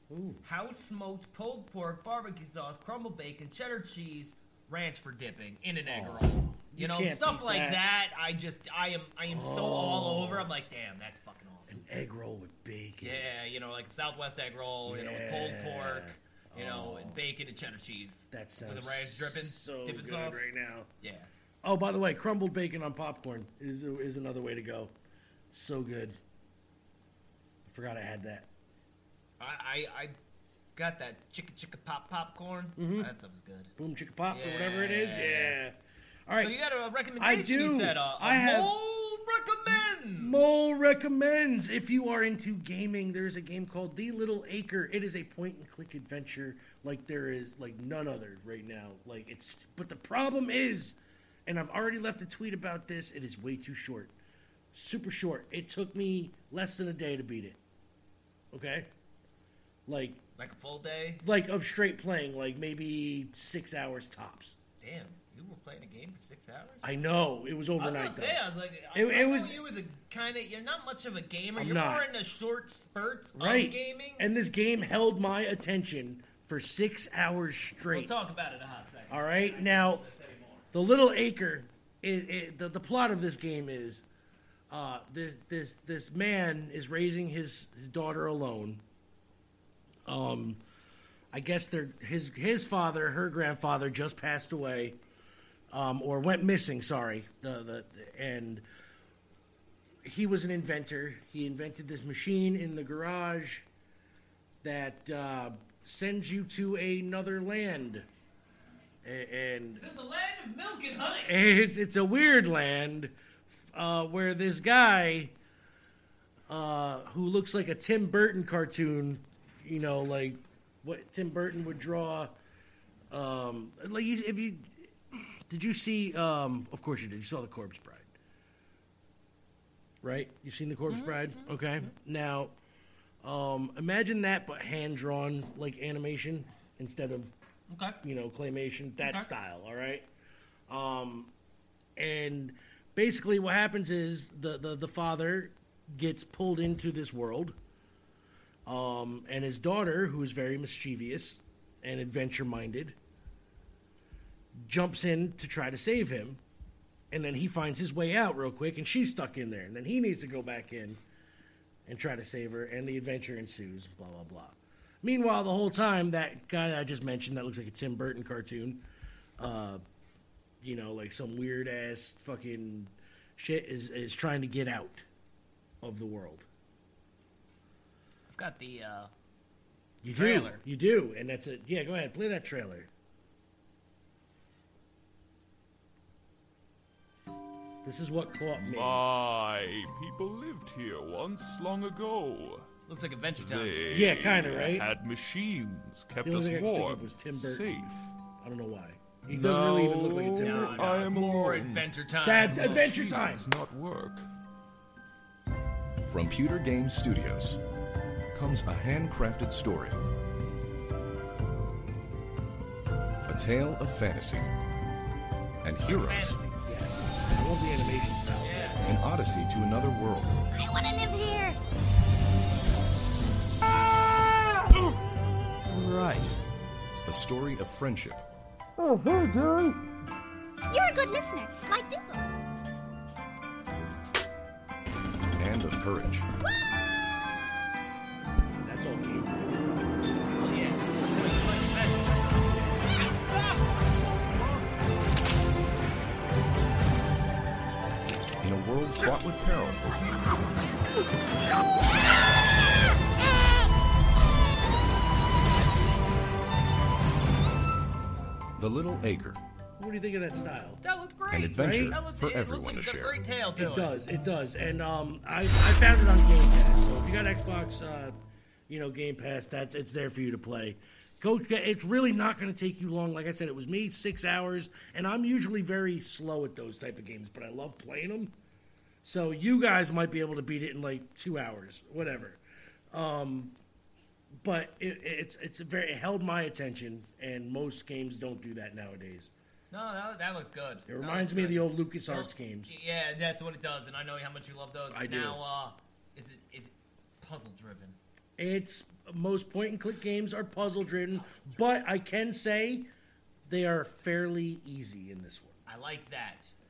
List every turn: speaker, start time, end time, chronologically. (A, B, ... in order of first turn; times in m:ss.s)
0:00.1-0:00.4 A
0:00.4-0:11.8 B
0:05.8-0:07.8 A
0:09.3-0:10.5 A
0:11.7-0:13.2 A
0:13.0-0:20.5 B
0:14.8-0:17.2 A
0:18.3-0:20.9 A
0:21.0-0:21.3 B
0:21.6-0:24.9 A
0:25.5-0:26.2 A
0:27.6-0:28.5 A
0:29.4-0:30.1 B
0:30.8-0:33.7 B
0:32.8-0:33.1 A
0:33.8-0:36.6 A
0:34.3-0:35.6 B
0:36.4-0:40.4 B
0:37.2-0:38.7 A
0:40.2-0:54.1 A
0:54.7-0:57.6 A
0:58.5-0:58.9 A
0:59.8-1:00.2 A
1:00.4-1:01.2 B
1:01.2-1:04.5 A
1:04.8-1:06.9 B
1:06.8-1:08.4 A
1:07.8-1:14.3 B
1:08.9-1:09.6 A
1:11.6-1:12.1 A
1:13.3-1:18.1 A
1:17.9-1:20.6 B
1:19.1-1:20.0 A
1:20.7-1:24.0 A
1:24.7-1:28.8 A
1:30.0-1:30.6 A
1:31.3-1:35.0 A
1:35.7-1:38.6 A
1:40.0-1:43.6 A
1:44.6-1:48.1 A
1:49.0-1:49.8 A
1:49.8-1:51.3 B
1:51.2-1:55.3 A
1:56.5-2:02.3 A
2:03.1-2:08.1 A
2:10.0-2:12.5 A
2:10.9-2:11.9 B
2:13.2-2:17.3 A
2:17.7-2:18.0 B
2:18.0-2:20.1 A
2:19.0-2:19.3 B
2:20.7-2:21.3 A
2:22.0-2:27.6 A
2:28.6-2:33.0 A
2:34.6-2:36.4 A
2:37.1-2:41.0 A
2:41.8-2:48.8 A
2:49.4-2:49.8 A
2:50.6-2:55.0 A
2:55.8-2:56.5 A
2:58.3-2:59.1 B
3:00.0-3:02.9 A
3:00.1-3:00.6 B
3:07.8-3:09.0 A
3:08.6-3:12.7 C
3:12.9-3:13.8 B
3:13.4-3:18.1 C
3:13.9-3:14.9 A
3:16.2-3:21.1 A
3:19.3-3:21.9 C
3:20.4-3:23.0 B
3:22.2-3:23.5 A
3:22.4-3:24.3 C
3:26.0-3:27.6 D
3:28.3-3:30.0 D
3:33.2-3:34.5 D
3:35.6-3:36.4 D
3:35.8-3:36.6 B
3:36.6-3:38.8 A
3:38.4-3:38.8 B
3:38.8-3:40.4 D
3:40.5-3:41.6 E
3:47.0-3:48.2 D
3:50.7-3:52.3 E
3:55.4-3:56.3 D
3:58.6-3:59.9 A
4:00.4-4:02.9 B
4:04.2-4:04.7 B
4:08.4-4:10.1 D
4:18.6-4:19.4 D
4:19.8-4:20.8 A
4:20.8-4:23.9 B
4:21.3-4:23.2 D
4:21.4-4:22.0 A
4:23.6-4:28.1 A
4:28.7-4:38.3 A
4:39.0-4:42.4 A
4:42.9-4:43.5 A
4:44.3-4:49.3 A
4:49.7-4:58.0 B
4:50.8-4:52.7 A
4:54.9-4:55.4 A
4:58.4-5:02.9 A
5:01.2-5:01.6 B
5:03.4-5:05.6 A
5:05.6-5:06.5 B